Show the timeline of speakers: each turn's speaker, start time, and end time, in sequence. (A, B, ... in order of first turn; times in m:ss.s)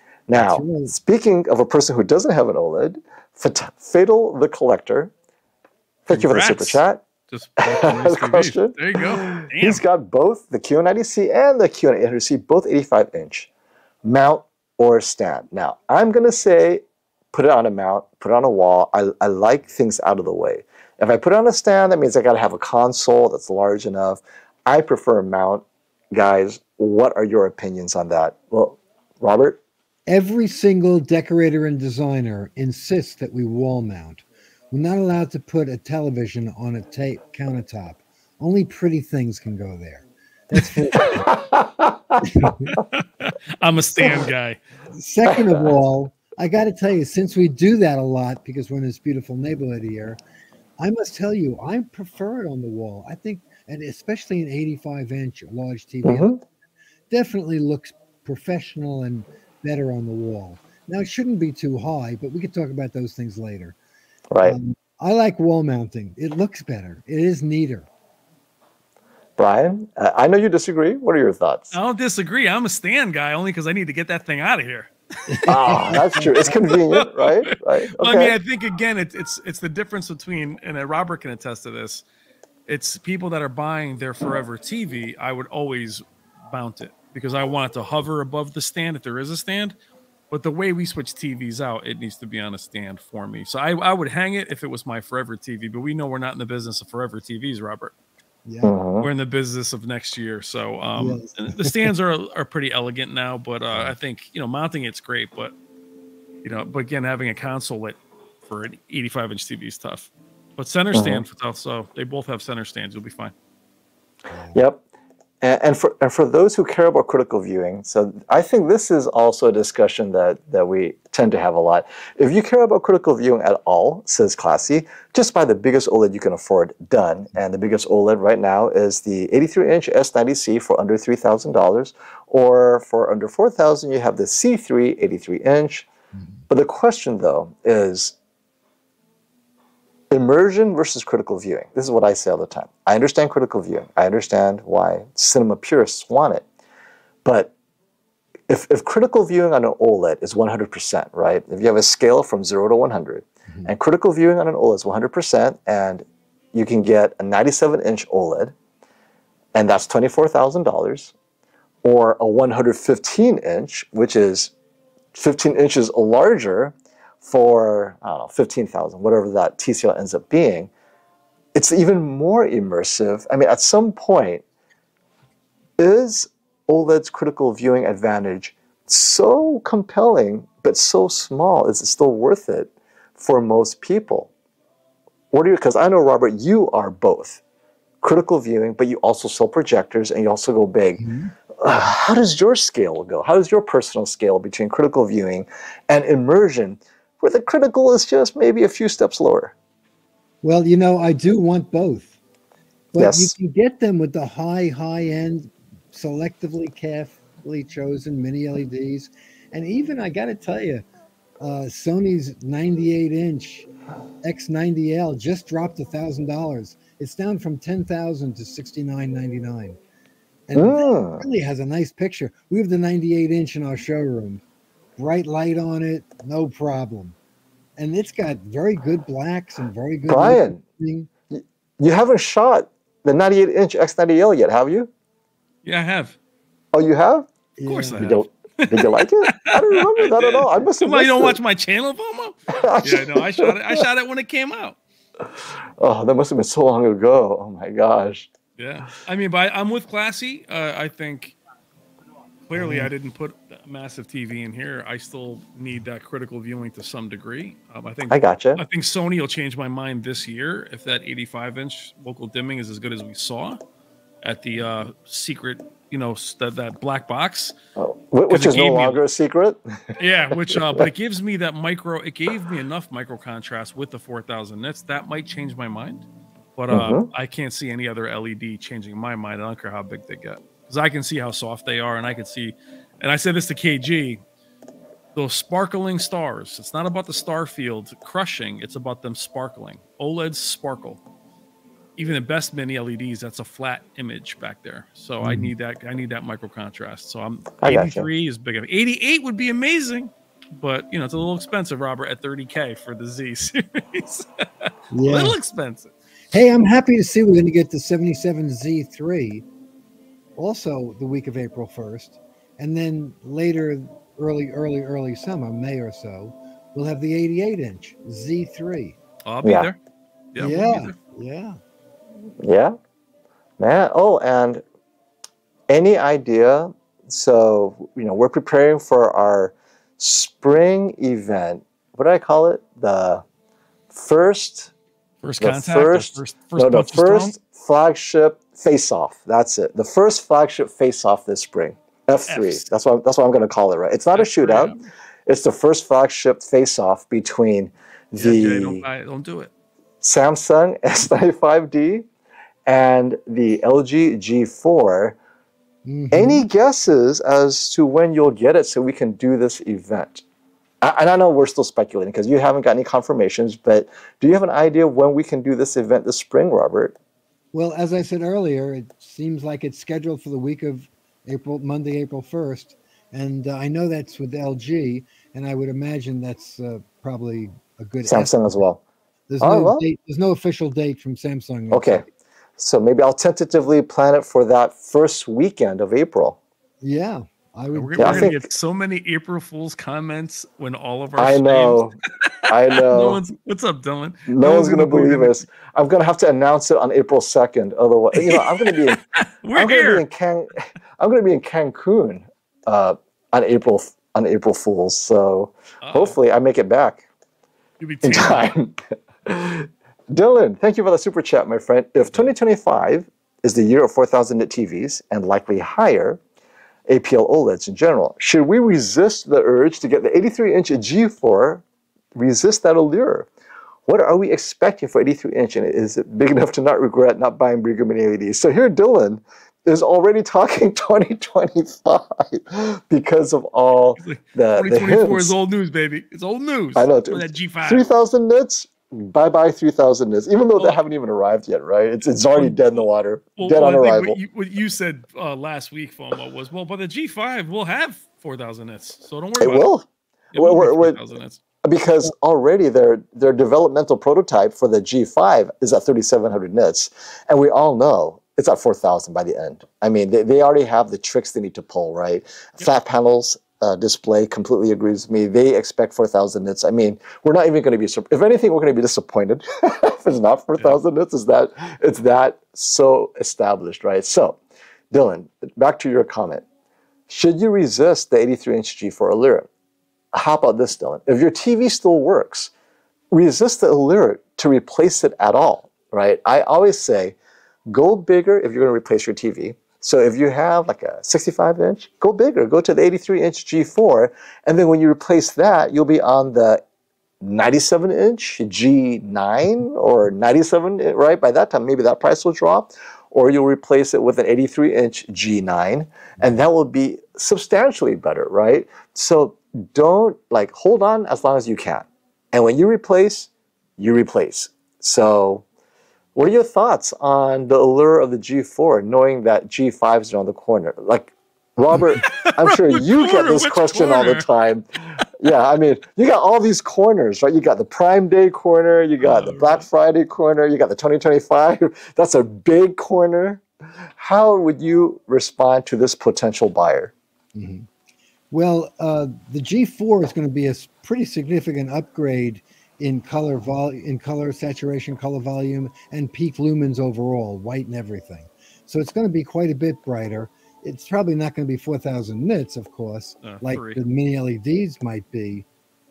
0:00.3-0:05.1 A
0:00.3-0:00.9 B
0:06.1-0:07.0 A
0:06.1-0:09.8 C
0:07.6-0:13.5 A
0:14.0-0:29.6 A
0:30.1-0:41.2 B
0:40.9-0:42.8 A
0:42.2-0:42.8 B
0:42.8-0:44.6 C
0:44.9-0:50.2 B
0:45.2-0:45.7 A
0:50.8-0:56.3 B
0:56.0-0:56.4 A
0:57.1-1:03.7 B
1:04.3-1:04.6 A
1:04.4-1:07.9 B
1:09.4-1:11.8 A
1:11.7-1:22.0 C
1:15.3-1:16.5 B
1:15.4-1:18.4 A
1:22.7-1:29.7 C
1:30.3-1:37.9 C
1:38.4-1:38.7 B
1:38.6-1:39.1 A
1:39.0-1:45.5 C
1:41.0-1:41.8 B
1:46.4-1:53.3 C
1:50.9-1:51.2 A
1:54.3-1:54.6 B
1:54.5-1:54.8 A
1:55.4-2:15.9 A
2:16.1-2:16.4 B
2:16.5-2:18.2 A
2:20.1-2:26.4 A
2:27.2-2:27.5 A
2:28.5-2:38.5 A
2:39.5-2:41.1 A
2:41.8-2:44.5 A
2:45.1-2:50.7 A
2:51.5-2:54.4 A
2:55.8-3:04.3 A
3:05.3-3:07.4 A
3:08.0-3:11.0 A
3:11.0-3:11.3 B
3:11.6-3:19.5 A
3:20.4-3:22.2 B
3:22.9-3:30.8 B
3:23.0-3:23.3 A
3:31.4-3:33.7 B
3:34.2-3:39.8 B
3:40.5-3:44.4 B
3:40.6-3:41.2 A
3:45.0-3:47.2 B
3:47.8-3:51.1 B
3:50.1-3:50.6 A
3:51.3-3:54.9 A
3:55.6-3:56.2 C
3:56.7-3:57.3 A
3:57.6-3:58.0 B
3:57.6-4:04.8 C
3:58.0-4:01.4 A
4:02.6-4:03.8 A
4:05.8-4:08.3 A
4:08.6-4:11.4 C
4:12.5-4:23.6 C
4:12.6-4:12.9 B
4:18.1-4:18.6 A
4:24.2-4:27.6 C
4:27.8-4:30.8 A
4:28.3-4:29.0 C
4:30.0-4:44.2 C
4:36.7-4:37.1 A
4:45.1-4:51.0 C
4:52.0-5:05.9 C
4:57.6-4:58.1 A
5:04.9-5:05.4 B
5:06.3-5:09.4 B
5:10.4-5:19.0 B
5:19.2-5:19.8 C
5:19.4-5:19.7 A
5:20.3-5:21.0 C
5:20.4-5:21.6 B
5:22.4-5:22.7 A
5:23.6-5:24.6 A
5:25.7-5:33.2 A
5:33.9-5:34.7 A
5:35.2-5:37.3 C
5:35.4-5:44.7 A
5:42.3-5:42.6 C
5:44.1-5:44.9 C
5:45.3-5:48.8 A
5:48.2-5:49.5 C
5:50.0-5:52.0 A
5:52.7-5:55.2 A
5:55.8-5:56.4 B
5:56.1-6:00.2 A
6:00.8-6:06.9 A
6:07.5-6:18.6 B
6:18.0-6:18.8 A
6:19.3-6:22.1 B
6:19.4-6:19.8 A
6:21.7-6:22.0 A
6:22.6-6:26.4 A
6:26.8-6:28.3 B
6:27.7-6:35.4 C
6:28.0-6:28.4 A
6:31.2-6:33.2 A
6:34.3-6:39.0 A
6:38.2-6:40.0 C
6:39.5-6:47.0 A
6:45.8-6:46.2 C
6:47.8-6:48.5 C
6:48.0-6:56.2 A
6:56.9-7:01.6 A
7:02.1-7:03.3 A
7:03.8-7:15.3 A
7:14.0-7:17.8 C
7:16.8-7:24.2 A
7:22.3-7:22.8 C
7:23.4-7:29.7 C
7:29.4-7:31.0 A
7:30.3-7:31.4 C
7:31.6-7:54.4 A
7:54.9-7:56.4 A
7:57.1-7:59.5 A
8:00.1-8:02.5 A
8:03.1-8:07.2 A
8:07.7-8:16.6 A
8:17.2-8:35.4 A
8:36.1-8:53.4 A
8:41.7-8:44.2 C
8:49.0-8:49.7 C
8:54.0-8:56.9 A
8:57.3-8:57.7 B
8:58.3-9:15.4 B
9:13.2-9:13.8 C